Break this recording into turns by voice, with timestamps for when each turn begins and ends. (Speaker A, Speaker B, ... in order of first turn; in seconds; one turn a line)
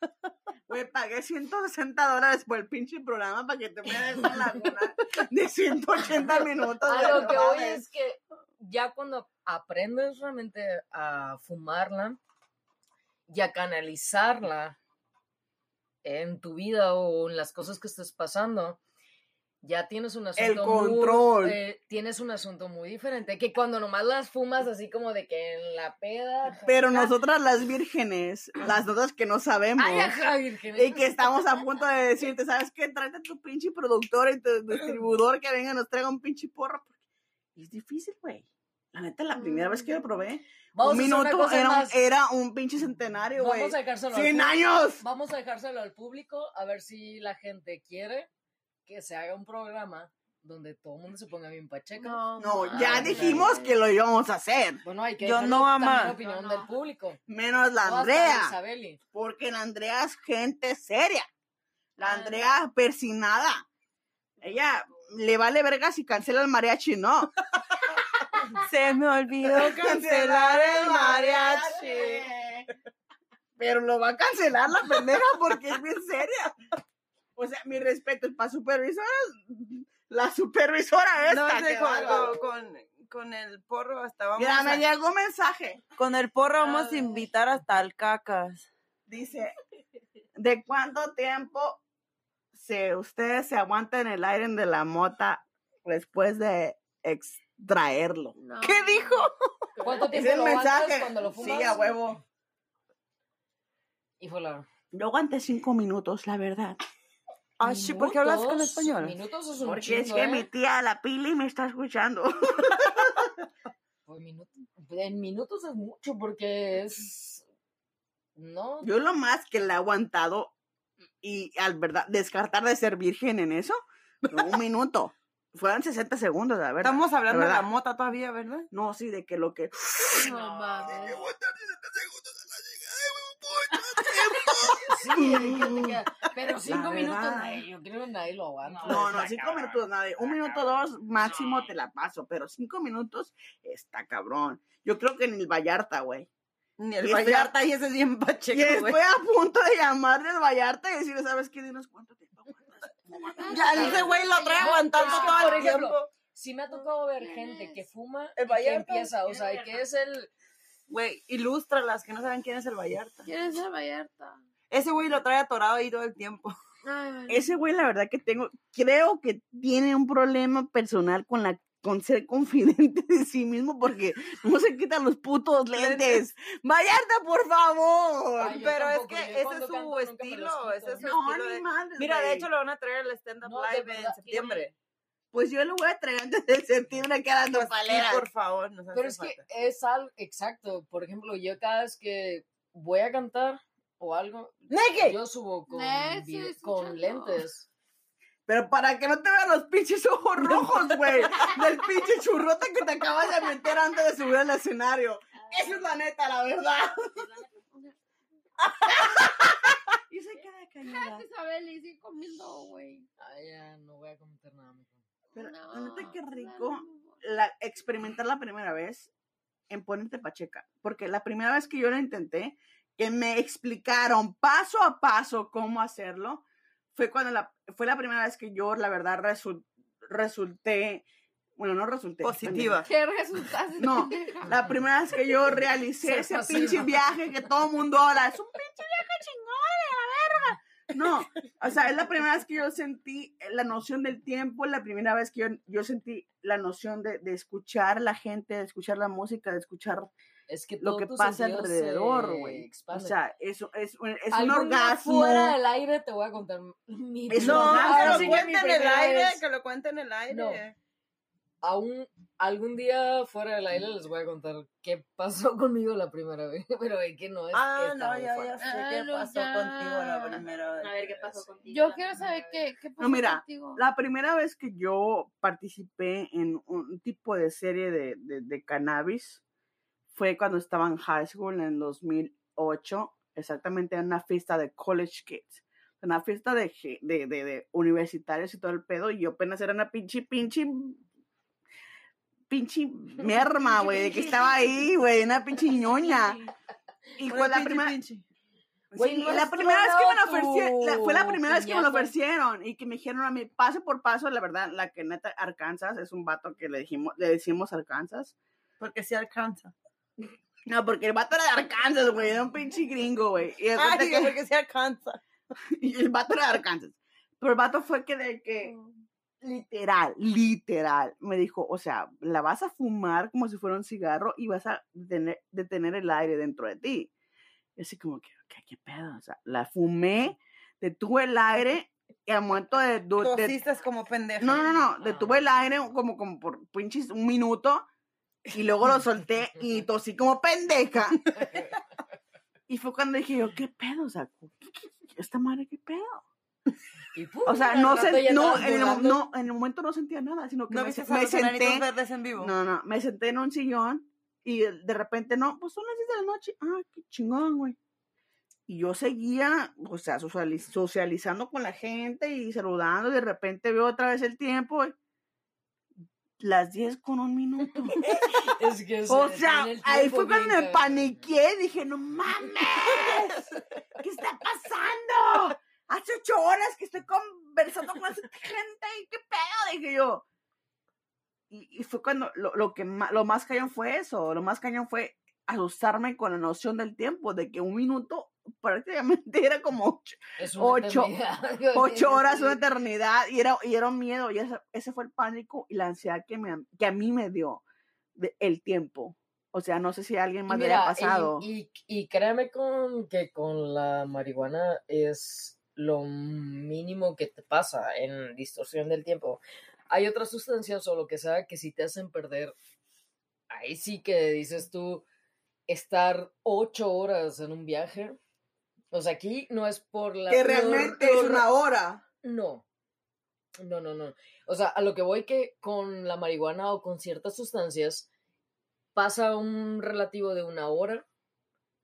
Speaker A: 0.7-7.8
Speaker B: 6.8-12.2
Speaker C: 6.9-7.4
Speaker B: 13.3-14.8
Speaker B: 16.0-18.8
Speaker B: 19.6-27.1
Speaker A: 20.4-21.6
Speaker A: 26.6-30.2
Speaker B: 29.8-31.3
Speaker A: 30.7-36.9
Speaker A: 37.5-45.0
Speaker D: 39.3-40.2
Speaker B: 40.7-42.0
Speaker B: 43.4-48.3
Speaker B: 48.9-53.5
Speaker D: 52.0-53.8
Speaker A: 52.4-54.8
Speaker B: 54.8-57.2
Speaker C: 55.2-56.2
Speaker D: 56.2-56.7
Speaker A: 57.3-58.5
Speaker B: 57.8-59.0
Speaker A: 59.1-61.3
Speaker A: 62.0-63.6
Speaker D: 62.0-62.4
Speaker A: 64.4-67.3
Speaker C: 68.6-72.2
Speaker A: 69.4-72.7
Speaker A: 73.6-76.5
Speaker A: 77.3-82.4
Speaker C: 81.3-84.8
Speaker A: 84.3-85.8
Speaker C: 86.0-88.7
Speaker A: 89.1-89.5
Speaker A: 90.3-91.8
Speaker A: 92.5-98.3
Speaker D: 98.4-99.3
Speaker C: 98.6-99.3
Speaker B: 99.8-101.9
Speaker A: 100.1-102.2
Speaker D: 101.4-101.9
Speaker B: 104.2-104.7
Speaker A: 104.9-106.8
Speaker C: 107.6-109.2
Speaker B: 107.6-110.5
Speaker A: 109.6-113.3
Speaker B: 114.0-117.4
Speaker B: 118.3-118.9
Speaker A: 118.8-120.5
Speaker A: 121.2-127.7
Speaker C: 126.8-128.7
Speaker A: 128.7-130.3
Speaker D: 130.1-131.2
Speaker B: 130.3-131.2
Speaker A: 130.8-137.6
Speaker C: 134.2-134.7
Speaker B: 134.8-140.6
Speaker A: 138.8-146.3
Speaker C: 146.8-149.0
Speaker A: 147.0-147.5
Speaker A: 148.5-154.2
Speaker D: 153.2-155.8
Speaker C: 153.5-156.1
Speaker B: 154.6-160.3
Speaker D: 156.8-157.8
Speaker C: 158.3-159.1
Speaker C: 160.9-163.3
Speaker D: 163.2-164.4
Speaker C: 164.7-166.5
Speaker D: 166.8-167.4
Speaker A: 167.3-178.7
Speaker C: 175.7-176.2
Speaker B: 178.4-181.1
Speaker C: 178.6-184.7
Speaker A: 181.0-182.5
Speaker B: 183.4-184.7
Speaker A: 185.3-188.2
Speaker C: 187.5-189.4
Speaker B: 188.9-197.7
Speaker C: 194.7-195.2
Speaker D: 195.7-197.4
Speaker A: 198.5-207.2
Speaker E: 205.4-206.0
Speaker E: 207.2-207.7
Speaker A: 208.9-211.2
Speaker D: 210.8-213.1
Speaker B: 213.2-215.0
Speaker D: 215.3-217.1
Speaker A: 215.3-219.1
Speaker A: 219.7-226.4
Speaker A: 226.9-231.0
Speaker A: 231.6-232.8
Speaker C: 232.2-232.9
Speaker D: 232.8-234.6
Speaker A: 233.8-250.1
Speaker B: 236.0-236.9
Speaker B: 250.5-253.2
Speaker A: 250.8-255.6
Speaker B: 254.3-259.4
Speaker A: 257.3-258.4
Speaker C: 257.4-260.7
Speaker B: 260.3-260.6
Speaker B: 261.6-268.6
Speaker C: 267.5-271.4
Speaker D: 268.6-270.4
Speaker A: 270.2-271.2
Speaker E: 270.8-272.6
Speaker D: 271.7-273.8
Speaker A: 273.0-279.4
Speaker A: 280.1-291.0
Speaker A: 292.5-296.4
Speaker B: 293.8-294.1
Speaker A: 297.2-298.0
Speaker C: 297.3-298.2
Speaker A: 298.9-308.3
Speaker B: 298.9-302.1
Speaker C: 308.8-309.7
Speaker A: 310.6-314.4
Speaker C: 313.8-315.2
Speaker A: 315.7-318.8
Speaker A: 319.4-327.1
Speaker A: 327.8-333.6
Speaker C: 333.2-334.8
Speaker A: 334.4-337.8
Speaker A: 338.5-341.2
Speaker A: 342.7-346.2
Speaker B: 347.1-349.2
Speaker A: 347.4-351.9
Speaker C: 350.7-352.5
Speaker A: 352.4-357.8
Speaker A: 358.7-364.9
Speaker A: 366.4-368.5
Speaker B: 368.5-371.2
Speaker A: 369.1-373.4
Speaker A: 374.0-380.2
Speaker A: 381.5-391.1
Speaker B: 390.4-392.6
Speaker A: 391.7-397.6
Speaker A: 398.1-401.5
Speaker B: 400.5-412.5
Speaker B: 413.5-415.0
Speaker B: 415.7-418.2
Speaker B: 418.9-421.4
Speaker A: 420.3-422.0
Speaker B: 422.2-422.6
Speaker B: 423.6-428.1
Speaker B: 428.9-431.0